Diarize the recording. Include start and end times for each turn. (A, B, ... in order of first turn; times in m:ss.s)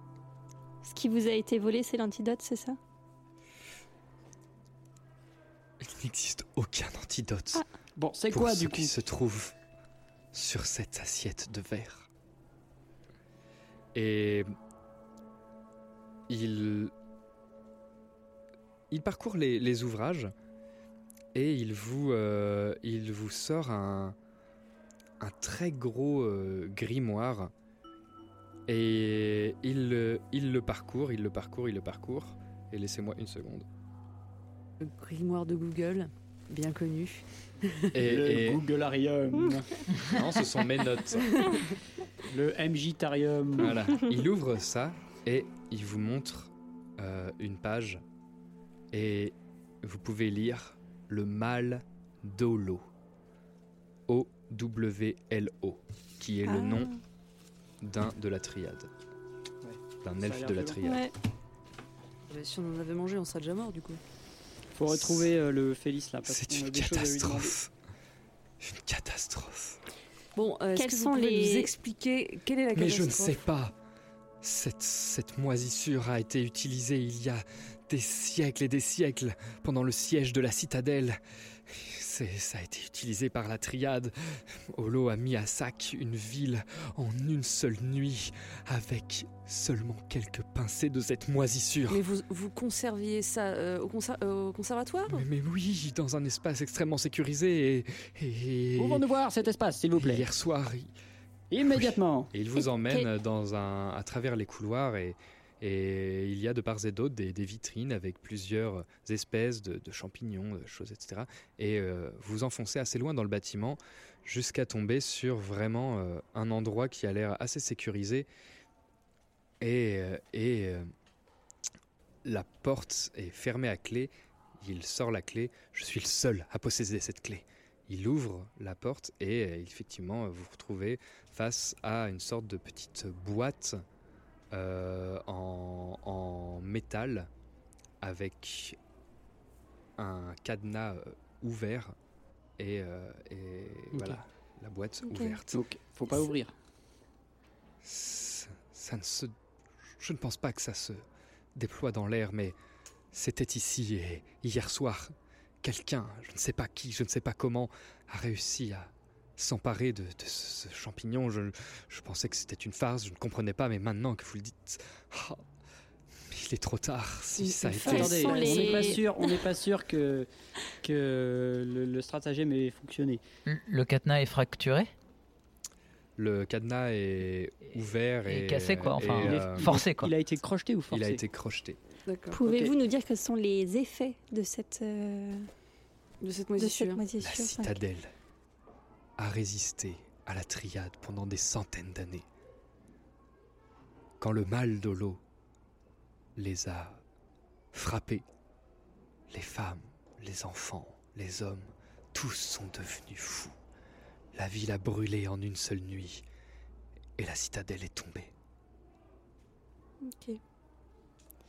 0:00.8-0:02.8 A
0:05.8-0:07.6 B
0:08.0-0:08.9 C
0:08.3-0:09.5 B
0:10.3-0:12.1 B
0:13.9-0:14.5 B
0:16.3-0:16.9 B
0:18.9-0:20.3 B
0:21.3-0:24.2 B
0:25.2-0:27.5 B
0:28.7-0:33.7 B
0:34.8-0:37.9 D
0:37.9-0:38.6 B
0:38.0-0:40.1 C
0:40.1-0:41.3 B
0:42.3-0:43.8 C
0:43.6-0:48.0 B
0:48.9-0:52.9 B
0:54.1-0:56.9 B
0:56.4-0:57.0 A
0:57.8-0:58.9 B
0:59.6-1:00.8 C
1:00.0-1:01.1 B
1:00.8-1:01.1 A
1:02.3-1:04.0 D
1:04.8-1:07.5 C
1:04.9-1:05.3 B
1:06.2-1:07.7 B
1:08.6-1:09.8 B
1:10.3-1:13.4 D
1:10.7-1:11.7 A
1:12.7-1:13.7 B
1:14.4-1:32.0 B
1:31.9-1:35.2 D
1:35.1-1:39.1 B
1:38.8-1:40.3 C
1:39.9-1:40.9 B
1:41.5-1:42.3 C
1:41.6-1:58.3 B
1:42.5-1:43.1 A
1:59.6-2:00.9 B
2:02.2-2:13.8 B
2:14.5-2:17.3 B
2:18.0-2:18.8 B
2:20.0-2:21.9 B
2:22.6-2:25.6 B
2:23.9-2:24.2 C
2:25.1-2:25.4 A
2:25.5-2:26.5 C
2:27.8-2:29.3 B
2:30.0-2:32.6 B
2:33.1-2:45.4 B
2:46.3-2:48.8 B
2:47.4-2:50.3 C
2:47.7-2:49.4 A
2:50.8-2:53.2 C
2:53.4-2:54.9 E
2:56.2-2:59.7 B
2:58.2-3:00.1 E
2:59.0-3:01.2 C
3:00.9-3:01.8 B
3:02.0-3:02.4 D
3:02.3-3:05.5 A
3:02.4-3:02.7 C
3:06.2-3:07.0 D
3:06.6-3:07.8 A
3:07.2-3:08.1 B
3:09.2-3:12.2 B
3:14.2-3:15.2 B
3:16.4-3:17.0 B
3:17.7-3:18.2 B
3:19.3-3:23.5 B
3:24.3-3:26.2 B
3:27.2-3:28.3 B
3:30.0-3:30.4 A